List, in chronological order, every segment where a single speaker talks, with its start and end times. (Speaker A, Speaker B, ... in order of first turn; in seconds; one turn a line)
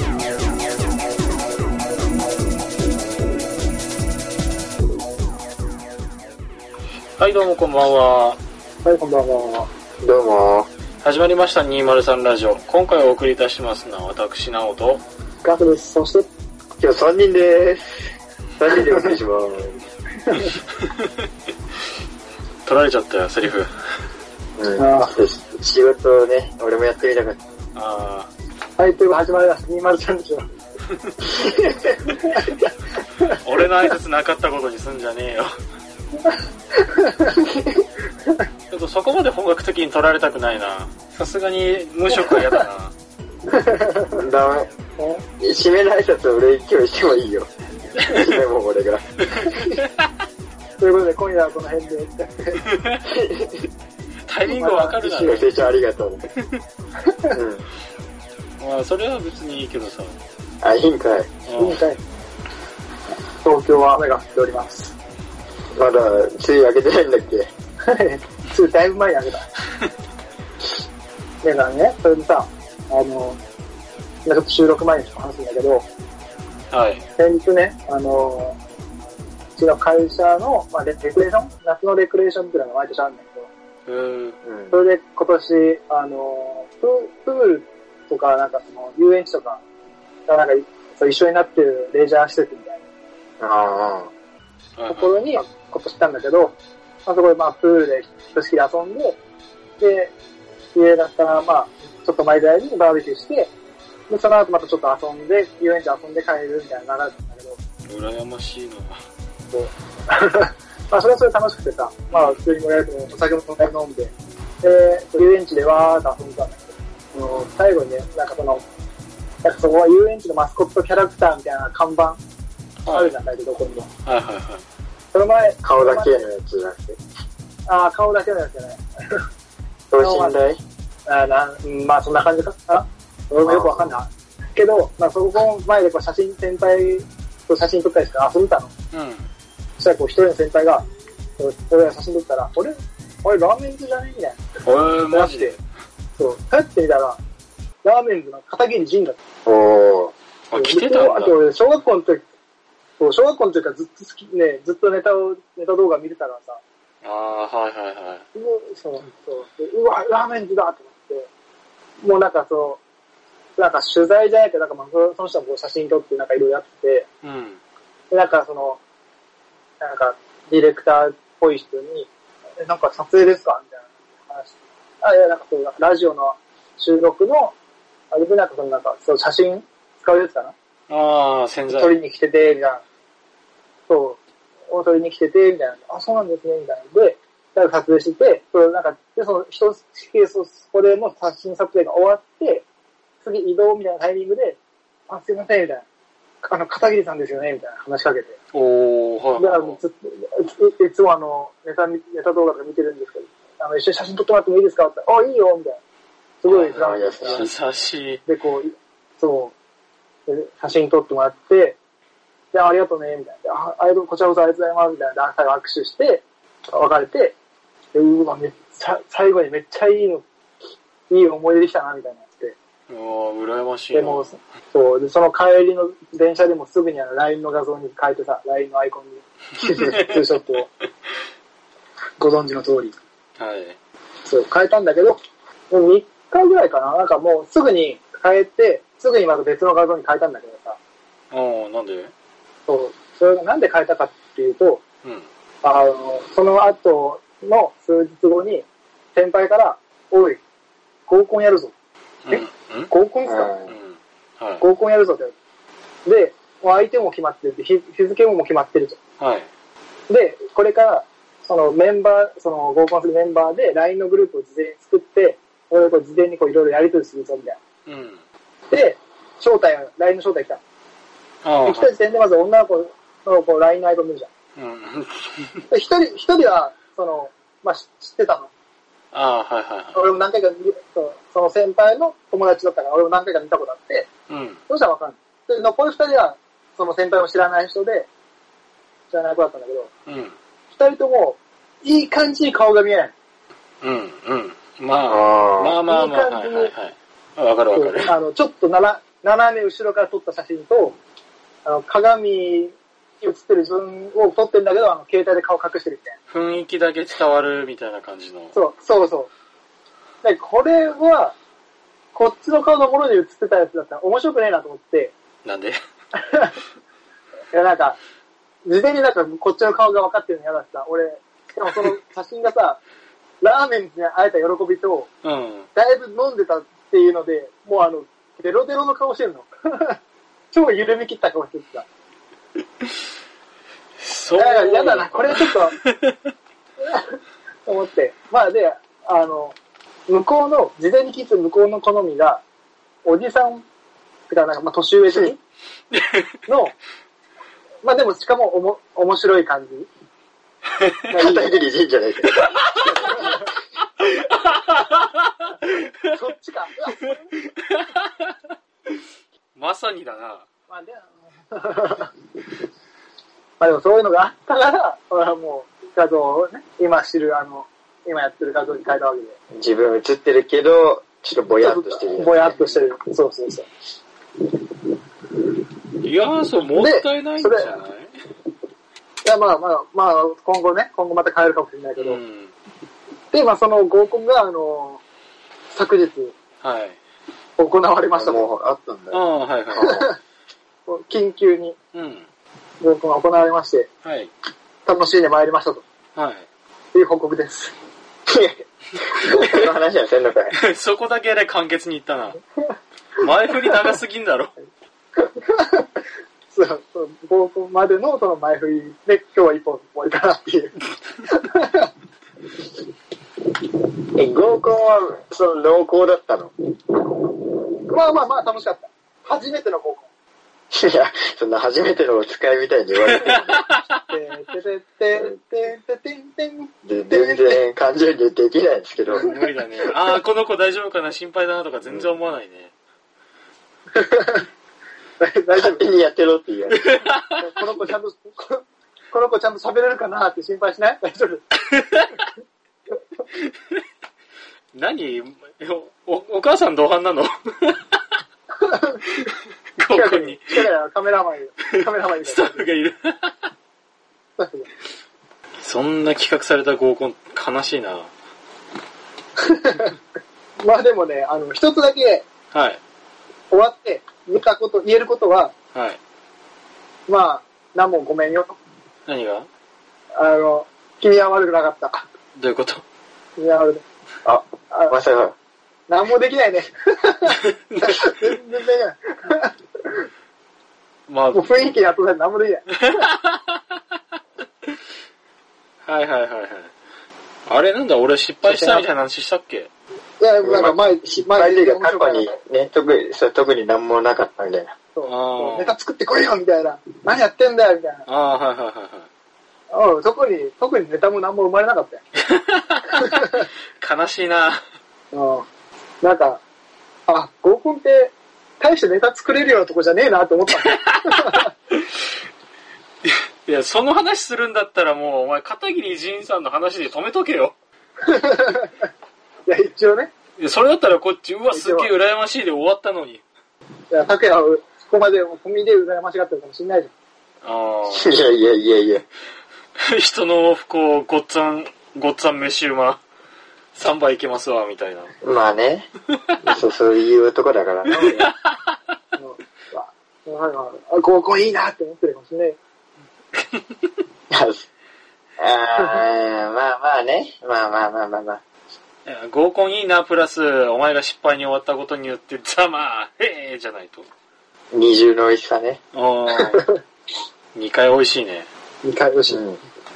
Speaker A: 7.2-8.4
Speaker B: 8.8-9.7
Speaker C: 10.0-10.7
Speaker A: 11.0-15.0
Speaker B: 15.4-16.3
Speaker C: 16.8-19.8
Speaker B: 18.7-19.1
Speaker B: 20.2-20.5
Speaker A: 22.6-23.7
Speaker C: 24.6-27.4
Speaker B: 24.8-25.1
Speaker A: 27.7-28.3
Speaker B: 28.8-30.4
Speaker C: 31.3-32.2
Speaker B: 32.2-32.5
Speaker A: 33.3-35.5
Speaker B: 36.3-37.4
Speaker C: 37.3-37.8
Speaker A: 38.7-42.9
Speaker B: 42.2-42.6
Speaker B: 43.5-44.2
Speaker C: 44.1-44.7
Speaker B: 45.0-45.2
Speaker C: 45.4-47.5
Speaker C: 48.0-49.2
Speaker A: 49.3-50.0
Speaker B: 49.4-49.8
Speaker B: 50.8-52.6
Speaker A: 52.6-53.0
Speaker C: 53.0-53.7
Speaker A: 54.2-55.5
Speaker B: 54.4-55.5
Speaker C: 55.2-56.3
Speaker B: 57.1-57.3
Speaker C: 57.3-57.6
Speaker A: 58.6-60.2
Speaker C: 60.6-61.3
Speaker A: 61.5-61.8
Speaker B: 61.5-62.0
Speaker B: 63.4-64.9
Speaker C: 65.7-67.5
Speaker B: 67.9-69.5
Speaker B: 71.4-73.4
Speaker B: 74.2-75.9
Speaker A: 76.7-77.0
Speaker B: 77.2-78.6
Speaker B: 79.5-83.5
Speaker A: 83.8-84.3
Speaker C: 84.4-84.8
Speaker B: 84.7-89.6
Speaker B: 90.3-92.8
Speaker C: 93.4-94.1
Speaker A: 94.8-95.2
Speaker B: 94.9-99.2
Speaker B: 99.8-100.1
Speaker B: 100.7-103.5
Speaker B: 104.1-107.6
Speaker A: 107.9-109.0
Speaker B: 109.5-116.6
Speaker A: 112.1-112.4
Speaker B: 117.1-118.6
Speaker B: 119.4-122.2
Speaker A: 122.8-123.1
Speaker B: 122.9-123.9
Speaker A: 124.0-124.6
Speaker B: 125.1-126.2
Speaker C: 125.6-127.0
Speaker B: 127.7-129.2
Speaker C: 129.9-130.6
Speaker B: 130.0-130.3
Speaker B: 131.1-138.7
Speaker C: 133.4-133.9
Speaker A: 138.9-139.3
Speaker B: 139.8-140.8
Speaker B: 141.4-144.4
Speaker A: 144.6-145.6
Speaker B: 145.1-145.5
Speaker B: 146.2-147.2
Speaker B: 147.8-149.2
Speaker C: 149.4-150.1
Speaker A: 150.5-151.3
Speaker B: 150.5-152.2
Speaker B: 153.0-156.6
Speaker A: 157.0-158.2
Speaker B: 158.3-161.3
Speaker B: 162.0-162.8
Speaker B: 163.6-167.1
Speaker A: 167.2-167.6
Speaker B: 168.1-168.8
Speaker B: 169.8-177.5
Speaker B: 178.1-180.5
Speaker A: 180.9-181.9
Speaker B: 181.7-182.8
Speaker B: 183.9-192.6
Speaker B: 193.2-195.8
Speaker B: 196.4-198.3
Speaker A: 198.5-199.8
Speaker B: 199.4-205.8
Speaker B: 206.4-207.5
Speaker A: 206.5-208.2
Speaker C: 206.6-207.5
Speaker B: 208.2-209.5
Speaker B: 210.2-211.8
Speaker B: 212.5-217.3
Speaker B: 217.9-220.2
Speaker B: 221.1-222.6
Speaker A: 222.9-224.3
Speaker B: 223.9-230.7
Speaker A: 229.7-230.1
Speaker B: 232.2-232.9
Speaker A: 233.4-233.8
Speaker B: 234.2-235.2
Speaker B: 235.7-240.8
Speaker A: 241.3-242.1
Speaker B: 242.7-244.8
Speaker B: 245.6-250.4
Speaker B: 251.1-251.7
Speaker A: 252.2-252.9
Speaker B: 252.3-253.5
Speaker C: 253.2-253.7
Speaker A: 253.7-254.6
Speaker B: 254.6-255.3
Speaker B: 256.1-259.0
Speaker A: 259.2-259.5
Speaker B: 260.1-267.6
Speaker A: 267.9-268.2
Speaker B: 268.7-270.6
Speaker A: 271.4-271.9
Speaker B: 271.6-274.3
Speaker A: 274.6-275.6
Speaker B: 275.7-278.5
Speaker A: 279.1-280.1
Speaker B: 279.9-284.1
Speaker A: 284.3-284.6
Speaker B: 284.7-288.1
Speaker B: 289.1-289.9
Speaker A: 290.1-290.3
Speaker B: 290.7-293.1
Speaker A: 293.8-298.1
Speaker C: 295.1-295.8
Speaker B: 295.9-296.7
Speaker B: 297.7-301.0
Speaker B: 301.6-306.2
Speaker A: 306.3-308.6
Speaker B: 308.5-309.3
Speaker B: 310.2-311.3
Speaker B: 312.1-315.1
Speaker A: 315.4-315.8
Speaker B: 316.2-316.6
Speaker B: 317.5-318.0
Speaker B: 318.6-322.8
Speaker B: 323.4-325.1
Speaker A: 325.2-325.7
Speaker B: 325.7-330.0
Speaker B: 330.5-331.9
Speaker A: 334.0-336.1
Speaker B: 334.3-335.8
Speaker B: 337.6-339.6
Speaker B: 340.1-342.4
Speaker B: 343.0-343.6
Speaker B: 344.3-345.4
Speaker A: 345.9-346.3
Speaker B: 346.5-346.7
Speaker B: 347.8-349.9
Speaker A: 350.8-351.0
Speaker B: 351.1-351.7
Speaker C: 351.1-352.3
Speaker A: 352.4-356.0
Speaker B: 352.9-353.4
Speaker B: 356.1-357.2
Speaker A: 357.6-358.4
Speaker A: 359.5-360.4
Speaker B: 360.7-362.1
Speaker B: 363.6-369.4
Speaker C: 369.5-372.8
Speaker B: 371.6-373.7
Speaker A: 376.0-378.1
Speaker B: 376.7-377.8
Speaker B: 379.2-382.2
Speaker A: 382.0-382.5
Speaker B: 383.3-385.0
Speaker B: 385.7-386.3
Speaker A: 386.6-387.0
Speaker B: 387.6-388.5
Speaker C: 388.1-390.1
Speaker A: 389.1-390.1
Speaker B: 389.8-390.2
Speaker B: 390.9-391.8
Speaker A: 391.9-392.3
Speaker B: 392.8-393.9
Speaker A: 394.0-394.3
Speaker B: 394.8-395.8
Speaker A: 396.1-396.4
Speaker B: 396.9-397.7
Speaker C: 398.3-400.6
Speaker A: 400.5-402.4
Speaker A: 403.2-404.5
Speaker B: 405.2-405.9
Speaker B: 406.5-411.9
Speaker C: 414.1-416.5
Speaker B: 417.8-420.1
Speaker C: 420.7-423.6
Speaker A: 423.1-423.9
Speaker B: 424.1-427.6
Speaker C: 426.9-429.3
Speaker A: 429.1-432.7
Speaker B: 433.9-434.4
Speaker B: 435.2-435.8
Speaker C: 435.5-436.8
Speaker A: 436.7-437.5
Speaker B: 437.4-441.4
Speaker A: 441.7-442.1
Speaker A: 444.7-448.2
Speaker B: 448.6-449.1
Speaker A: 449.8-450.7
Speaker B: 449.9-452.7
Speaker A: 451.7-453.5
Speaker B: 454.4-454.7
Speaker A: 455.6-458.1
Speaker B: 459.4-459.9
Speaker B: 460.6-462.2
Speaker A: 462.5-462.8
Speaker B: 463.5-465.5
Speaker A: 465.7-466.0
Speaker B: 467.1-468.6
Speaker A: 469.1-469.5
Speaker B: 470.2-472.0
Speaker A: 472.4-472.8
Speaker B: 473.4-473.8
Speaker C: 474.2-475.3
Speaker B: 474.7-474.9
Speaker B: 475.9-479.9
Speaker A: 481.1-481.5
Speaker B: 481.3-483.0
Speaker A: 482.8-483.8
Speaker A: 485.8-486.7
Speaker A: 487.5-489.7
Speaker B: 488.4-488.9
Speaker B: 490.2-492.3
Speaker C: 490.4-494.7
Speaker B: 494.9-498.1
Speaker A: 495.0-495.8
Speaker A: 498.1-499.1
Speaker B: 499.7-502.0
Speaker A: 502.2-504.6
Speaker B: 503.0-503.4
Speaker B: 505.1-505.5
Speaker B: 506.0-506.4
Speaker B: 507.1-511.5
Speaker A: 510.5-512.0
Speaker A: 513.0-517.5
Speaker B: 518.0-518.8
Speaker B: 519.5-520.1
Speaker A: 520.4-523.2
Speaker B: 521.5-521.9
Speaker B: 523.9-526.9
Speaker A: 527.4-528.2
Speaker C: 527.9-529.0
Speaker A: 529.8-533.0
Speaker A: 533.7-535.1
Speaker C: 535.2-535.9
Speaker C: 536.4-538.3
Speaker A: 538.0-538.6
Speaker B: 539.1-542.6
Speaker C: 544.3-544.6
Speaker C: 545.4-548.4
Speaker A: 549.0-554.0
Speaker C: 554.7-555.8
Speaker A: 555.9-556.6
Speaker B: 556.4-556.8
Speaker A: 557.5-558.5
Speaker B: 558.8-559.4
Speaker C: 559.3-559.6